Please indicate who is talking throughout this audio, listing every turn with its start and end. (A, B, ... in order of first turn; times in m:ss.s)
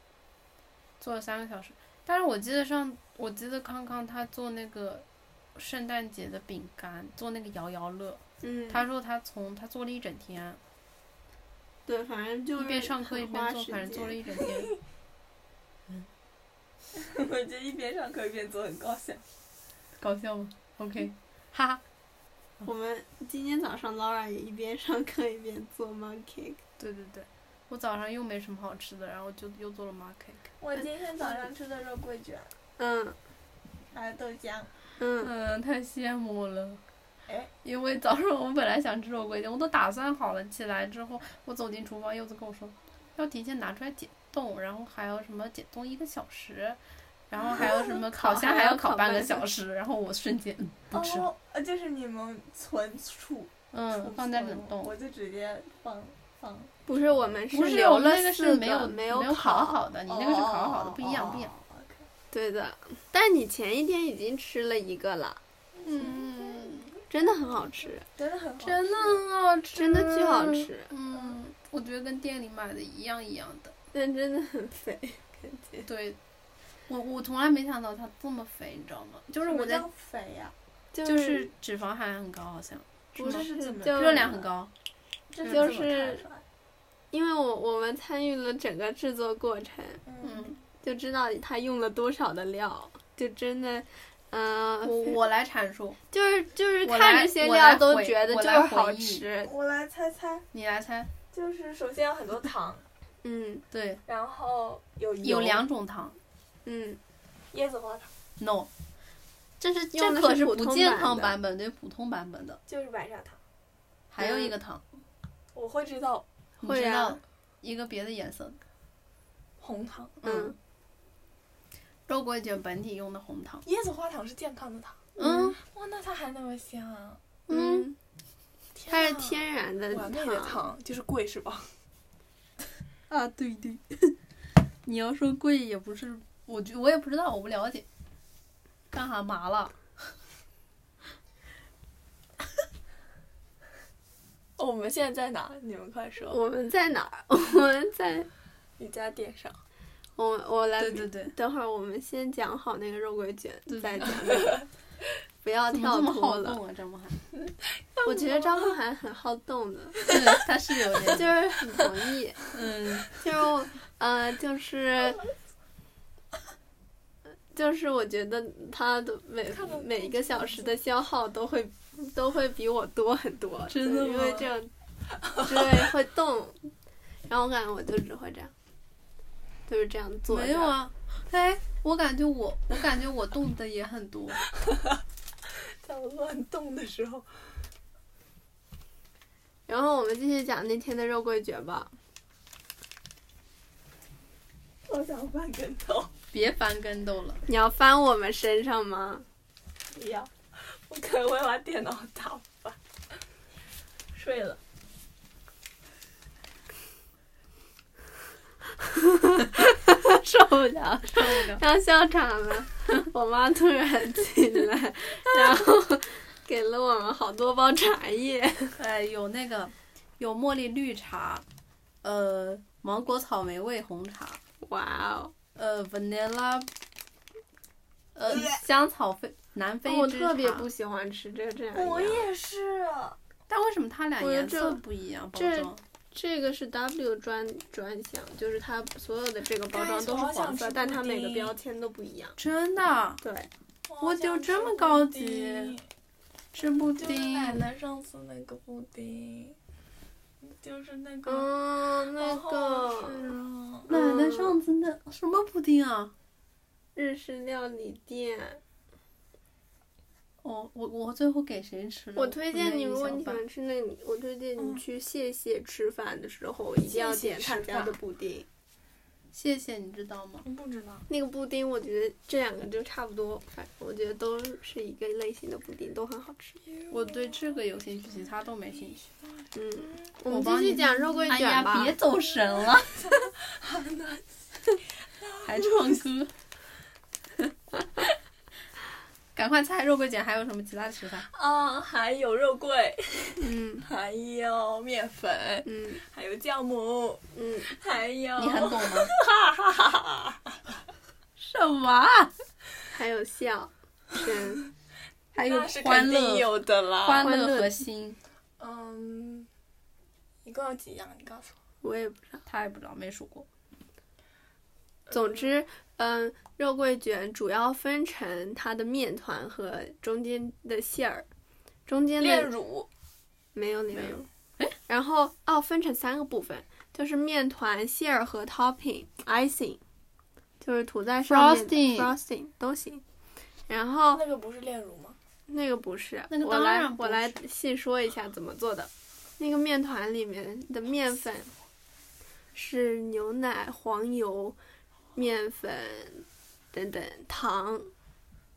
0:01.0-0:10.6 A
0:08.4-0:08.8 B
0:11.9-0:14.5 B
0:12.6-0:14.7 A
0:16.9-0:19.2 C
0:20.0-0:21.8 A
0:22.6-0:26.6 B
0:26.8-0:30.5 A
0:30.6-0:32.5 C
0:32.8-0:33.2 B
0:33.9-0:34.7 C
0:35.0-0:35.3 B
0:35.2-0:36.8 A
0:37.2-0:37.5 C
0:37.6-0:46.8 A
0:47.3-0:51.3 A
0:47.4-0:47.8 C
0:47.6-0:49.4 B
0:50.9-0:56.7 C
0:53.7-0:54.9 A
0:56.8-0:59.8 B
0:57.5-1:01.5 A
1:00.1-1:02.1 C
1:02.3-1:05.4 B
1:05.8-1:06.9 A
1:06.0-1:06.8 C
1:07.1-1:08.0 B
1:08.1-1:09.2 C
1:08.6-1:13.7 A
1:09.7-1:10.9 B
1:13.9-1:15.9 B
1:15.8-1:16.2 A
1:16.9-1:19.9 A
1:19.4-1:20.5 C
1:20.9-1:21.5 B
1:21.0-1:24.7 A
1:23.2-1:24.3 B
1:23.2-1:24.5 C
1:25.3-1:26.4 C
1:25.4-1:26.2 B
1:25.4-1:25.7 A
1:27.1-1:30.0 B
1:30.0-1:30.5 C
1:30.2-1:30.6 A
1:30.8-1:35.2 B
1:34.8-1:36.0 A
1:36.1-1:39.5 B
1:36.8-1:39.2 A
1:39.4-1:40.5 C
1:40.5-1:41.1 A
1:41.3-1:42.8 C
1:43.2-1:43.6 B
1:43.7-1:44.0 A
1:44.1-1:45.6 C
1:45.2-1:46.2 A
1:46.6-1:47.0 B
1:47.5-1:48.1 C
1:48.4-1:48.7 A
1:49.6-1:52.6 A
1:49.9-1:51.4 B
1:52.7-1:53.4 C
1:54.1-1:54.8 A
1:54.2-1:54.5 B
1:55.5-1:56.2 C
1:56.6-1:58.6 A
1:56.6-1:57.2 B
1:59.6-2:00.2 C
2:00.2-2:00.5 A
2:00.2-2:00.5 B
2:02.1-2:03.6 A
2:03.6-2:07.3 C
2:05.2-2:05.6 A
2:05.2-2:05.5 B
2:07.5-2:07.9 B
2:07.5-2:07.9 A
2:08.7-2:11.7 C
2:08.9-2:10.6 B
2:13.1-2:14.1 A
2:14.8-2:17.8 A
2:18.9-2:19.8 A
2:24.6-2:26.4 C
2:26.3-2:28.3 B
2:28.8-2:29.6 C
2:30.2-2:34.6 B
2:30.8-2:31.3 A
2:33.7-2:34.2 A
2:35.4-2:36.6 B
2:35.7-2:37.2 A
2:37.9-2:38.8 C
2:38.0-2:40.0 B
2:40.0-2:41.3 A
2:41.1-2:42.4 B
2:42.5-2:43.2 A
2:43.1-2:45.2 B
2:47.5-2:54.7 B
2:49.5-2:50.7 C
2:53.7-2:54.5 A
2:55.3-2:56.7 B
2:57.3-2:58.5 B
2:59.7-3:00.7 B
3:00.3-3:04.4 A
3:05.8-3:07.3 C
3:09.7-3:11.9 B
3:14.9-3:16.1 C
3:16.3-3:17.4 A
3:17.5-3:19.2 B
3:19.9-3:22.8 C
3:24.1-3:24.6 C
3:28.8-3:38.8 B
3:31.1-3:31.6 A
3:38.8-3:41.4 A
3:42.0-3:44.4 A
3:44.6-3:45.3 B
3:45.6-3:46.7 A
3:48.2-3:50.7 A
3:48.3-3:48.6 C
3:49.8-3:52.3 B
3:51.7-3:53.2 C
3:53.5-3:55.8 A
3:54.2-3:54.8 B
3:55.3-4:02.4 B
3:59.7-4:01.5 C
4:02.4-4:03.2 A
4:03.2-4:03.5 B
4:03.9-4:05.8 C
4:04.0-4:05.8 A
4:06.5-4:07.6 A
4:07.0-4:09.6 C
4:10.4-4:13.9 C
4:11.2-4:13.3 B
4:13.9-4:14.6 B
4:13.9-4:16.1 A
4:17.0-4:18.6 B
4:20.4-4:23.4 A
4:22.2-4:28.4 B
4:24.6-4:24.8 C
4:26.8-4:28.0 C
4:29.3-4:30.4 A
4:30.4-4:31.0 C
4:31.1-4:36.6 B
4:36.7-4:37.4 C
4:36.9-4:39.1 A
4:39.5-4:42.0 B
4:40.3-4:43.1 A
4:43.0-4:44.4 C
4:45.1-4:46.0 C
4:45.4-4:46.3 A
4:49.3-4:51.3 A
4:51.3-5:00.7 C
4:53.4-4:53.8 B
4:55.6-4:56.0 B
4:57.3-4:57.7 B
4:58.4-4:59.1 A
5:01.4-5:02.3 A
5:02.9-5:04.6 B
5:05.3-5:08.2 A
5:05.4-5:07.3 C
5:07.2-5:07.8 B
5:08.6-5:09.5 C
5:10.4-5:11.6 C
5:11.8-5:12.4 B
5:12.4-5:13.5 A
5:15.1-5:15.5 C
5:15.1-5:21.3 B
5:21.9-5:22.5 B
5:22.2-5:22.9 C
5:23.5-5:24.3 B
5:24.9-5:29.8 B
5:30.6-5:33.0 B
5:31.2-5:32.1 A
5:33.7-5:34.2 B
5:34.1-5:35.2 C
5:35.5-5:41.5 B
5:36.3-5:37.4 A
5:42.5-5:44.6 B
5:45.2-5:47.9 B